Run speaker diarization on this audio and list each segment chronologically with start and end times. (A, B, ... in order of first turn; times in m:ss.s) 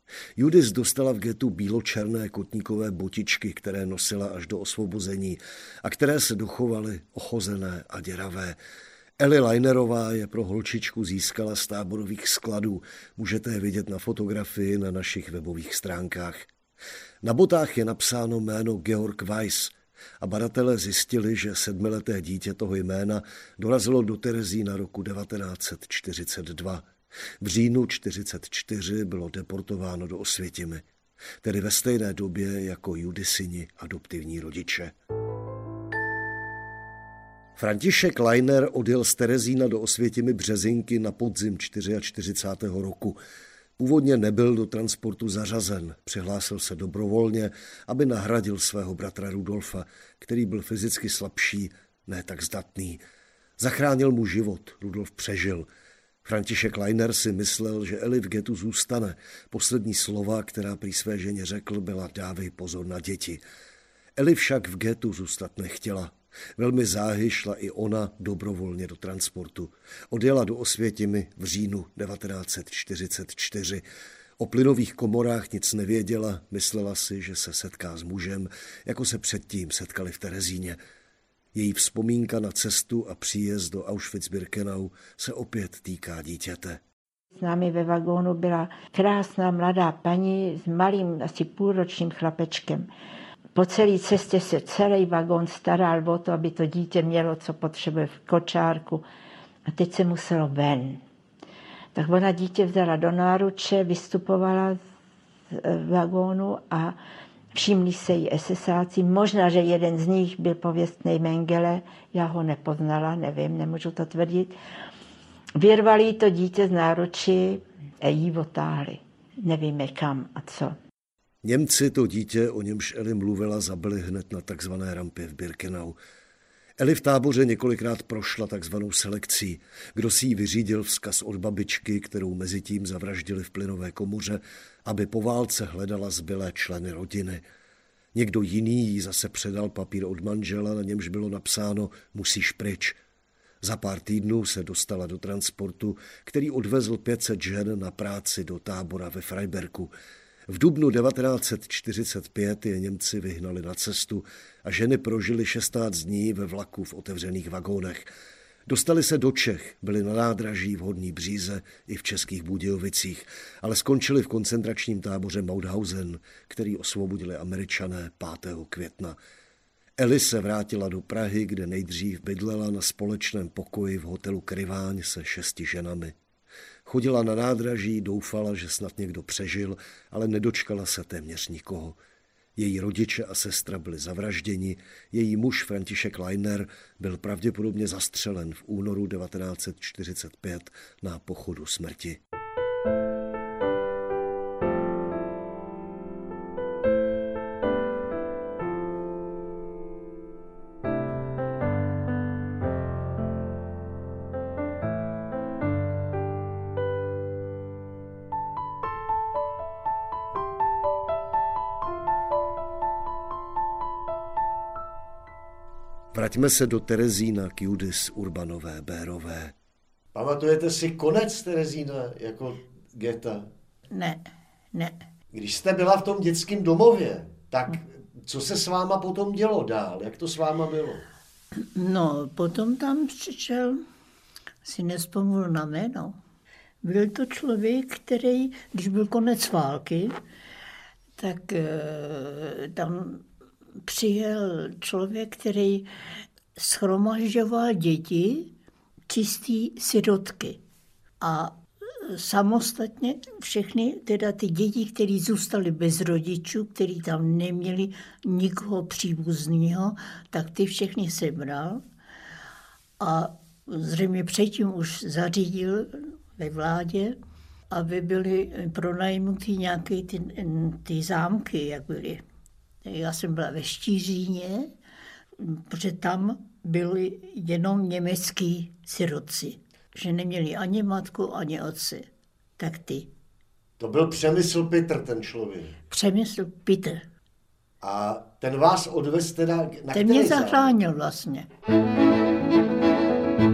0:00.4-0:08.6 A
0:09.2-0:16.5 A
0:17.2-0:26.9 A
0:27.4-0:30.8 A
0:31.4-0:34.9 A
0:37.6-0:43.2 A
0:43.8-0:53.0 A
0:53.6-0:55.7 A
0:56.2-1:03.4 A
1:04.2-1:13.8 A
1:14.4-1:20.8 A
1:21.5-1:26.8 A
1:27.3-1:32.9 B
1:33.5-1:39.0 B
1:39.7-1:41.0 B
1:41.9-1:44.8 B
1:45.5-1:47.0 B
1:47.5-1:54.6 B
1:55.6-2:00.8 B
2:01.4-2:06.0 A
2:06.8-2:17.4 A
2:18.1-2:23.0 A
2:23.6-2:29.9 A
2:30.5-2:38.1 A
2:38.6-2:49.2 A
2:50.0-2:56.1 A
2:56.8-3:02.0 A
3:02.6-3:12.2 A
3:36.1-3:39.5 A
3:40.1-3:43.5 C
3:43.9-3:45.0 D
3:45.3-3:51.0 C
3:51.8-3:53.8 D
3:54.6-3:56.2 D
3:56.8-4:00.1 D
4:01.2-4:03.2 D
4:03.9-4:05.9 D
4:06.6-4:08.5 D
4:09.1-4:10.6 D
4:11.2-4:21.8 D
4:23.0-4:27.2 D
4:27.7-4:32.2 D
4:32.8-4:34.7 D
4:35.4-4:42.1 D
4:42.6-4:43.1 D
4:43.8-4:45.7 C
4:45.9-4:47.0 D
4:47.8-4:50.7 C
4:49.9-4:51.5 D